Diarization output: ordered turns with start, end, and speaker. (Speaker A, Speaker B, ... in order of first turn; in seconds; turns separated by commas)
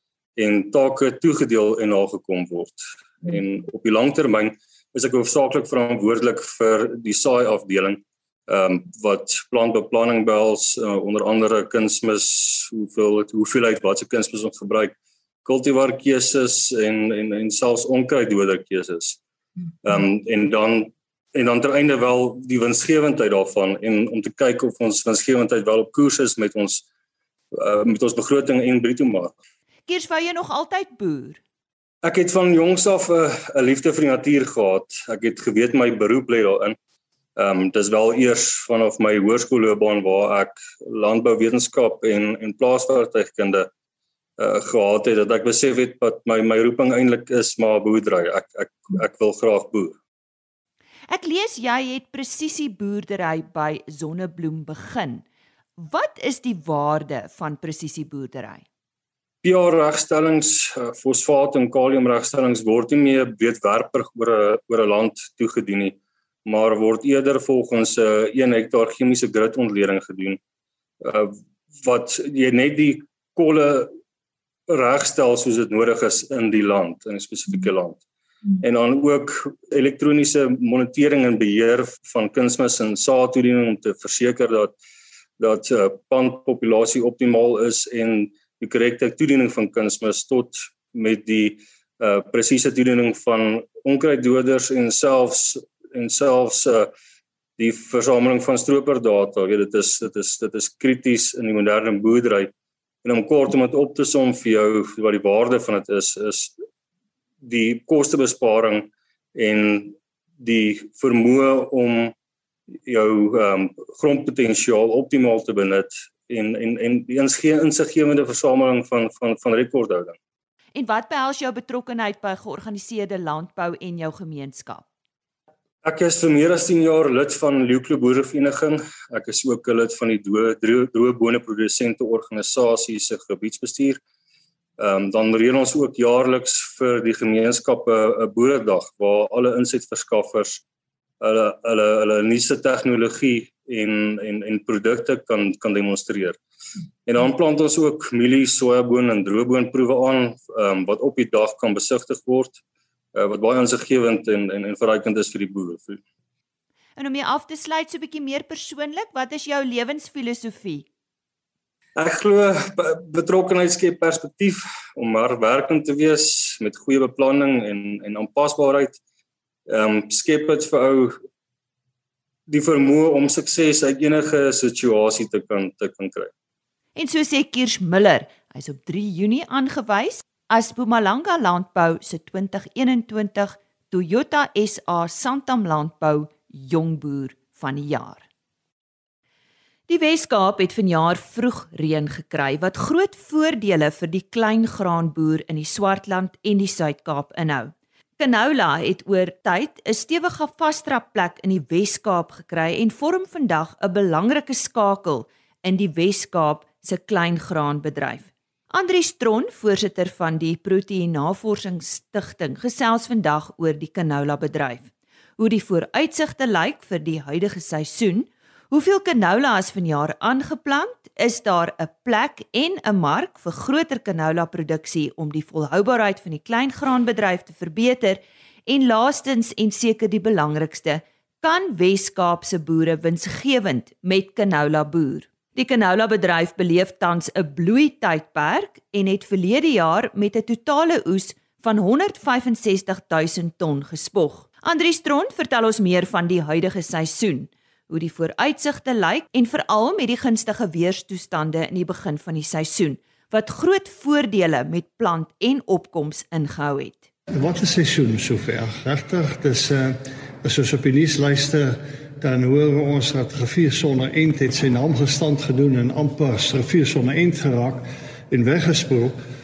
Speaker A: 0.4-19.2, Speaker A: 19.8-26.8, Speaker A: 27.5-29.3, Speaker B: 29.9-31.4, Speaker A: 32.0-36.8, Speaker A: 37.4-43.7, Speaker A: 44.4-50.0, Speaker B: 51.1-55.2, Speaker B: 55.8-58.6, Speaker A: 59.4-70.4, Speaker A: 71.0-73.9, Speaker A: 74.7-78.0, Speaker A: 78.6-84.7, Speaker A: 85.4-96.9, Speaker A: 97.6-102.5, Speaker A: 103.0-106.5, Speaker A: 107.4-112.1, Speaker A: 112.8-120.2, Speaker B: 120.7-124.8, Speaker A: 125.8-134.0, Speaker A: 134.8-140.6, Speaker A: 141.2-146.4, Speaker A: 147.1-152.6, Speaker A: 153.1-156.0, Speaker B: 157.0-160.9, Speaker A: 161.9-169.0, Speaker A: 169.7-171.1, Speaker A: 172.5-176.3, Speaker B: 176.9-188.2, Speaker B: 189.9-257.0, Speaker C: 257.3-269.1